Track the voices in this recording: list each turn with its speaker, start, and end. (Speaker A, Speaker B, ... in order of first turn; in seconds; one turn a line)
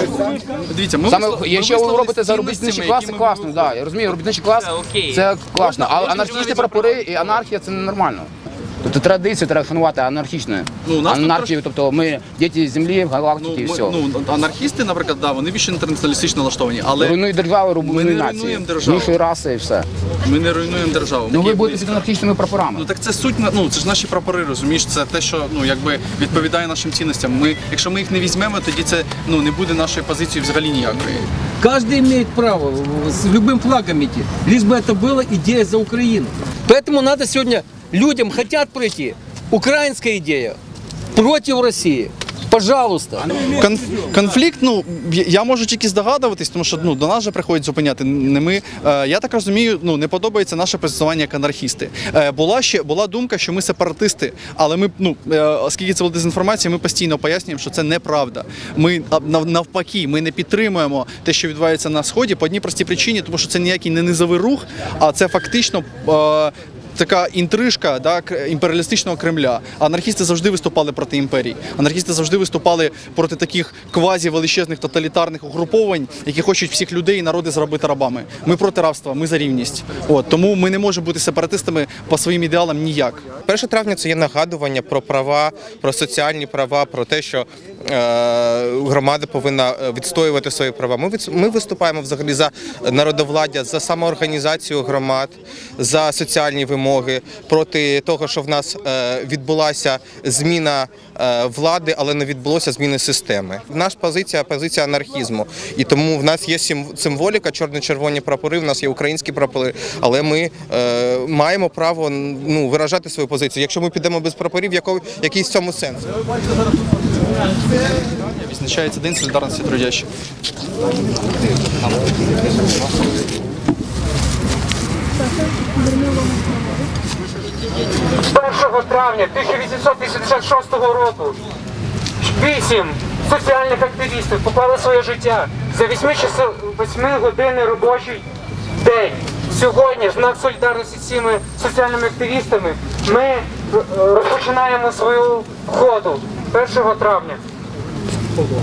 Speaker A: 0.6-3.8
Speaker B: 1.1-8.3
Speaker A: 5.6-6.7
Speaker B: 8.8-14.0
Speaker A: 10.8-11.6
Speaker A: 13.4-17.2
Speaker B: 17.0-19.9
Speaker A: 17.8-19.2
Speaker A: 20.2-22.0
Speaker B: 21.3-22.9
Speaker A: 22.7-31.3
Speaker C: 31.6-40.6
Speaker C: 41.1-43.4
Speaker A: 43.5-83.3
Speaker D: 83.5-116.1
Speaker A: 118.2-120.1
Speaker E: 128.2-131.4
Speaker E: 132.2-138.2
Speaker E: 138.8-147.4